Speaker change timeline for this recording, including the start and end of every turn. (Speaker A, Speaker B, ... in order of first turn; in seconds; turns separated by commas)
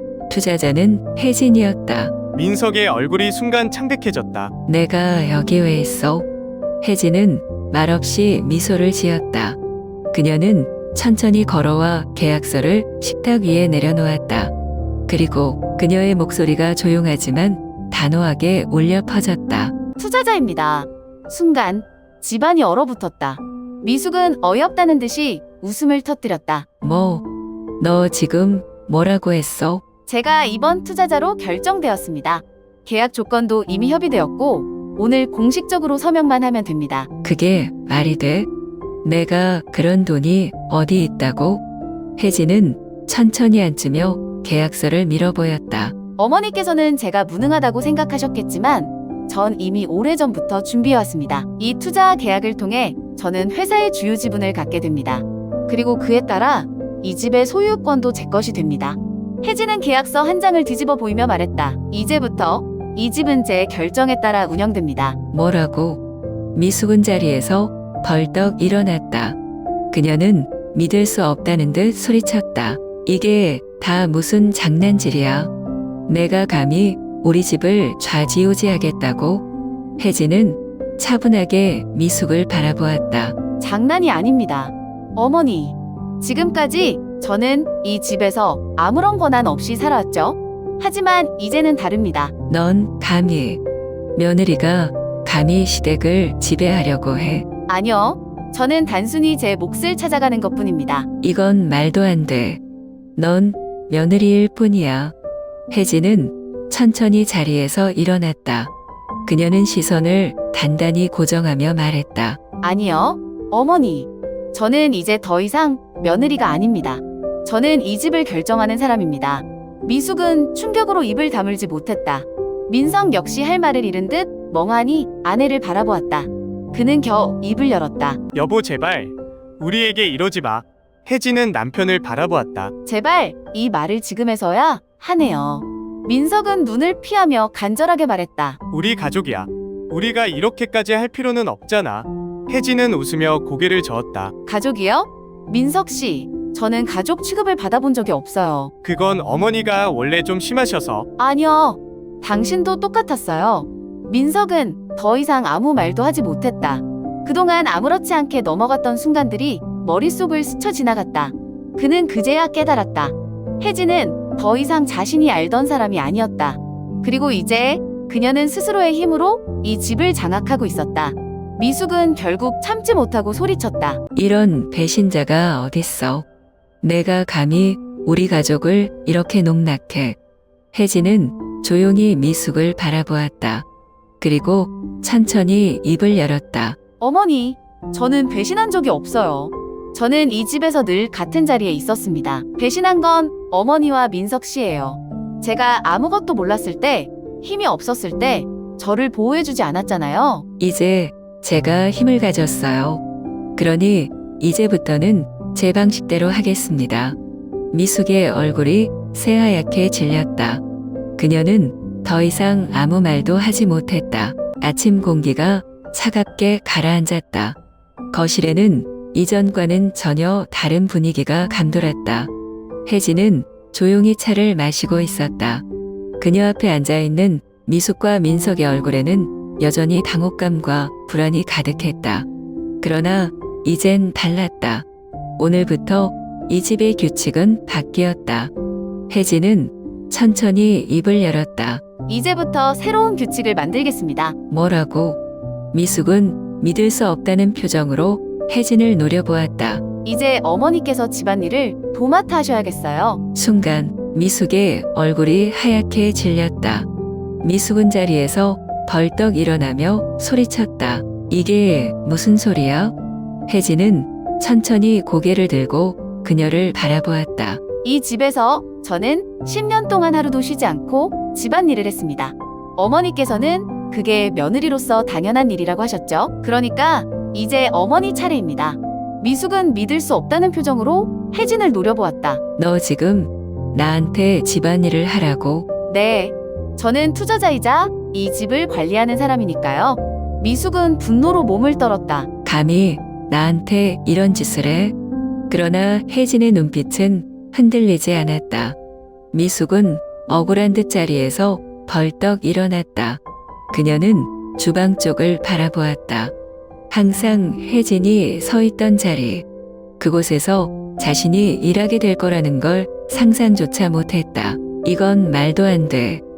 Speaker A: 0.3-2.1, Speaker B: 2.3-4.5, Speaker A: 4.7-6.3, Speaker A: 6.8-9.6, Speaker A: 10.1-14.5, Speaker A: 15.1-19.7, Speaker C: 20.0-26.7, Speaker A: 26.8-27.2, Speaker A: 27.8-29.8, Speaker C: 30.1-37.1, Speaker A: 37.2-38.5, Speaker A: 39.0-41.6, Speaker A: 42.2-45.9, Speaker C: 46.2-65.2, Speaker A: 65.3-66.0, Speaker A: 66.5-69.4, Speaker A: 69.9-75.5, Speaker A: 76.1-79.4, Speaker A: 80.0-83.4, Speaker C: 83.6-92.3, Speaker A: 92.5-93.6, Speaker A: 94.2-97.5, Speaker C: 97.7-101.1, Speaker A: 101.2-102.6, Speaker A: 103.2-105.1, Speaker A: 105.7-108.7, Speaker A: 109.3-112.4, Speaker C: 112.6-128.2, Speaker B: 128.3-132.7, Speaker C: 132.8-138.6, Speaker B: 138.7-144.3, Speaker C: 144.5-148.7, Speaker B: 148.8-151.1, Speaker C: 151.2-174.0, Speaker A: 174.2-176.3, Speaker A: 176.8-180.2, Speaker A: 180.7-183.7, Speaker A: 184.2-186.8, Speaker C: 187.0-200.4, Speaker A: 200.6-203.0, Speaker A: 203.6-207.2, Speaker A: 207.7-210.6, Speaker A: 211.2-217.6, Speaker A: 218.1-222.3, Speaker A: 222.9-225.6, Speaker A: 226.2-232.3, Speaker A: 232.8-234.8, Speaker A: 235.4-238.5, Speaker A: 239.1-241.8, Speaker C: 242.1-244.4, Speaker A: 244.5-245.2, Speaker A: 245.7-249.8, Speaker C: 250.0-253.2, Speaker A: 253.3-256.9, Speaker A: 257.4-262.9, Speaker A: 263.5-267.6, Speaker C: 267.8-282.4, Speaker A: 282.6-285.7, Speaker C: 285.9-292.3, Speaker A: 292.4-294.9, Speaker A: 295.5-298.8, Speaker A: 299.3-303.2, Speaker A: 303.7-306.3, Speaker A: 306.9-309.5, Speaker A: 310.0-316.2